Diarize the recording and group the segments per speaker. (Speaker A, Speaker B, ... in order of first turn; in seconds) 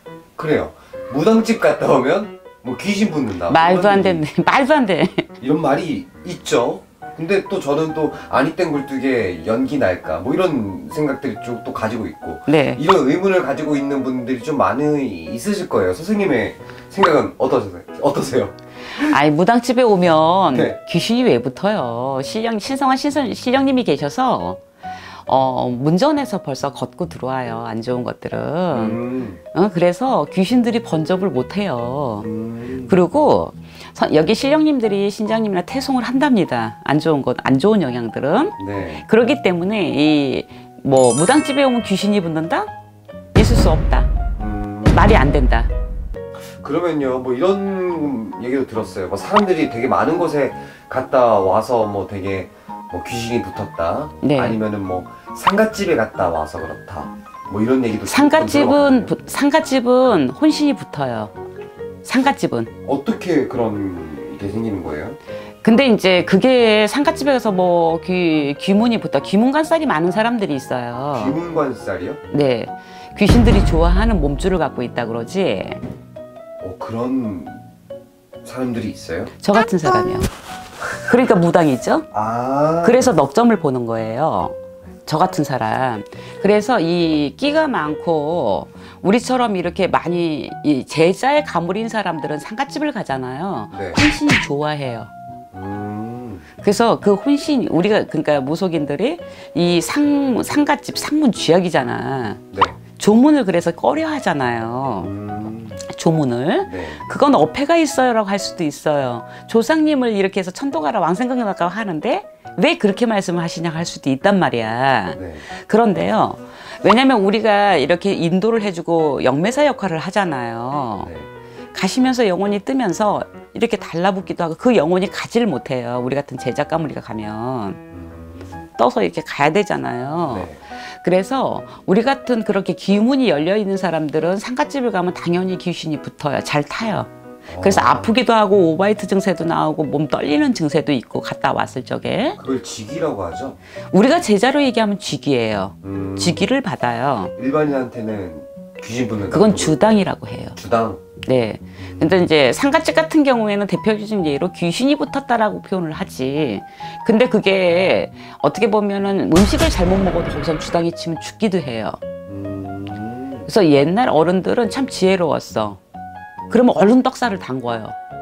Speaker A: 0.3-4.2, 5.4-18.5, 20.5-20.8, 28.7-29.4, 32.2-33.0, 38.6-39.0, 44.4-45.2, 46.4-59.1, 62.8-65.2, 71.1-72.2, 76.6-77.7, 78.4-79.3, 82.1-83.2, 93.7-94.0, 95.5-96.5, 102.5-102.8, 105.0-105.8, 106.7-107.0, 115.1-115.5, 121.0-121.3, 127.9-128.7, 130.3-130.6, 137.5-138.1, 142.4-143.6, 145.8-146.4, 147.4-149.8, 150.6-151.0, 151.8-152.3, 162.3-163.5
Speaker B: 3.5-5.3, 12.5-12.8, 18.9-24.6, 25.2-29.0, 29.5-32.3, 32.9-42.7, 43.3-44.1, 44.9-45.7, 54.2-54.6, 58.0-61.3, 62.0-62.7, 65.6-71.4, 72.3-75.8, 79.4-80.3, 81.0-82.1, 82.8-84.5, 85.1-95.1, 96.6-102.4, 102.9-105.1, 105.8-121.1, 121.7-127.8, 128.8-142.4, 143.9-147.3, 149.3-150.6, 151.2-162.0, 163.5-165.8, 166.5-167.9